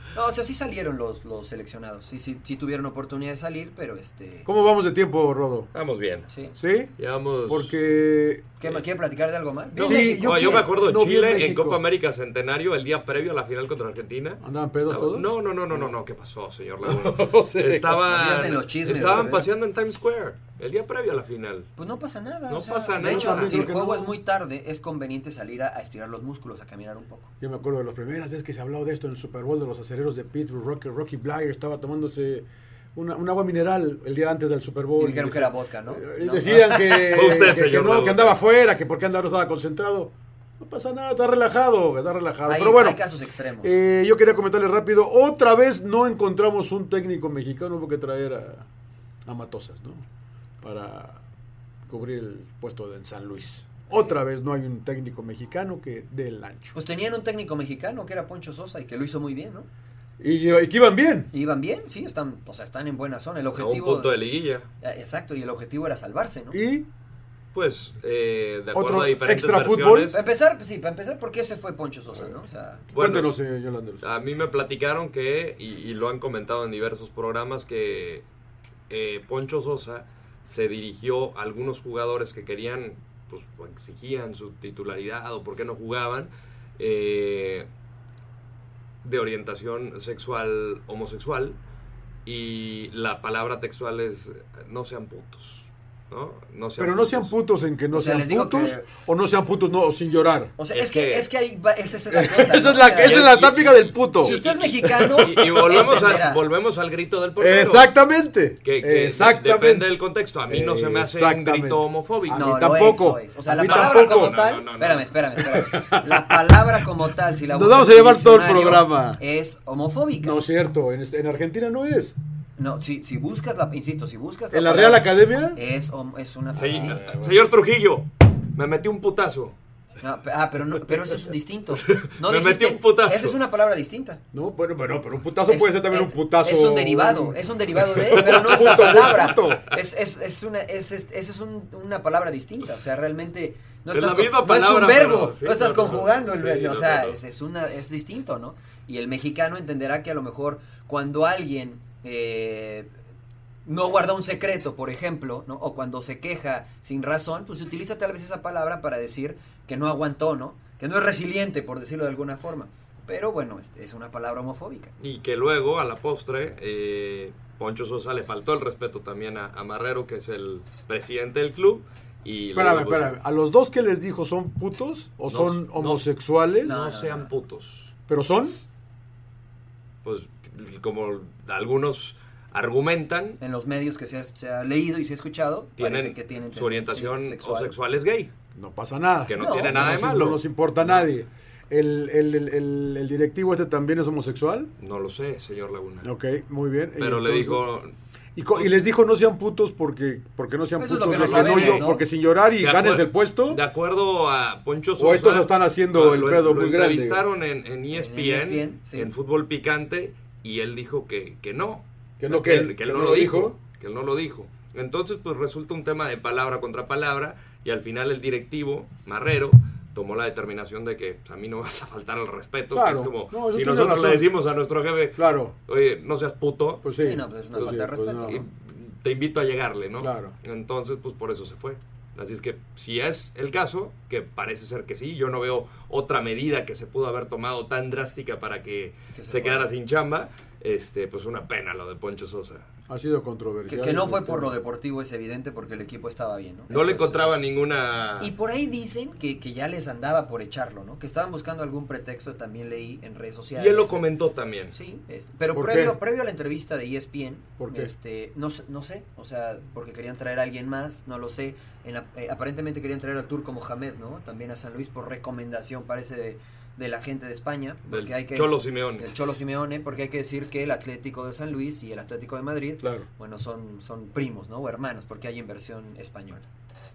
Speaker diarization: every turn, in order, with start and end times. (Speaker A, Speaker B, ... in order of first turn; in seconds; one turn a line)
Speaker A: 0.1-4.5
Speaker B: 4.5-5.7
Speaker C: 5.7-6.3
Speaker A: 6.3-6.5
Speaker B: 6.5-6.9
Speaker C: 7.0-7.7
Speaker B: 7.5-8.5
Speaker A: 8.6-10.6
Speaker B: 9.7-11.8
Speaker C: 9.8-21.7
Speaker B: 14.4-15.9
Speaker B: 16.8-18.1
Speaker A: 18.1-19.5
Speaker A: 21.8-27.3
Speaker C: 22.5-23.7
Speaker B: 23.0-24.1
Speaker B: 27.4-43.0
Speaker A: 35.0-37.4
Speaker C: 36.9-38.4
Speaker A: 42.5-43.7
Speaker B: 43.6-48.7
Speaker B: 49.2-50.0
Speaker B: 50.6-51.2
Speaker B: 51.9-56.7
Speaker A: 56.7-59.7
Speaker B: 60.2-61.3
Speaker A: 61.3-64.2
Speaker C: 63.6-64.7
Speaker A: 64.8-66.6
Speaker B: 66.5-66.9
Speaker C: 67.5-70.2
Speaker B: 68.7-70.1
Speaker A: 70.1-72.8
Speaker C: 72.9-73.3
Speaker B: 73.0-74.0
Speaker C: 74.0-78.2
Speaker C: 78.9-87.7
Speaker C: 89.0-91.6
Speaker C: 92.2-97.3
Speaker B: 96.8-100.5
Speaker A: 97.9-98.8
Speaker A: 100.6-103.4
Speaker C: 100.7-101.3
Speaker B: 102.1-105.8
Speaker C: 103.0-107.9
Speaker A: 104.2-106.4
Speaker B: 107.4-109.9
Speaker C: 108.6-112.7
Speaker B: 110.5-114.3
Speaker A: 112.3-120.4
Speaker C: 113.5-115.1
Speaker B: 115.4-116.8
Speaker B: 117.5-119.2
Speaker B: 120.2-122.1
Speaker A: 122.6-127.0
Speaker B: 124.5-125.6
Speaker C: 126.5-129.6
Speaker B: 126.6-127.4
Speaker A: 130.0-134.2
Speaker C: 131.8-133.4
Speaker B: 134.3-139.7
Speaker A: 135.4-152.9
Speaker C: 138.1-139.6
Speaker C: 143.9-147.2
Speaker A: 153.7-164.9
Speaker C: 165.0-173.1
Speaker B: 172.5-176.8
Speaker C: 175.3-176.0
Speaker C: 176.6-177.9
Speaker A: 176.6-177.3
Speaker B: 178.1-178.6
Speaker C: 180.0-183.4
Speaker A: 183.4-187.7
Speaker C: 185.8-188.3
Speaker B: 188.5-194.7
Speaker C: 189.3-191.1
Speaker A: 189.4-189.8
Speaker C: 194.8-196.1
Speaker B: 196.0-197.6
Speaker C: 197.0-197.9
Speaker B: 198.3-203.6
Speaker A: 200.8-202.0
Speaker C: 201.1-201.9
Speaker C: 202.4-226.8
Speaker B: 205.0-207.2
Speaker A: 207.9-209.1
Speaker B: 212.2-213.5
Speaker B: 222.7-224.3
Speaker B: 225.2-225.5
Speaker B: 226.8-228.4
Speaker A: 227.0-228.4
Speaker C: 228.2-242.6
Speaker B: 230.0-230.3
Speaker A: 239.1-239.7
Speaker B: 242.9-244.6
Speaker A: 243.7-247.4
Speaker C: 246.7-248.3
Speaker A: 248.2-254.0
Speaker C: 253.6-254.7
Speaker A: 254.7-276.5
Speaker B: 255.5-256.0
Speaker B: 257.6-257.9
Speaker C: 267.9-269.1
Speaker B: 272.8-273.1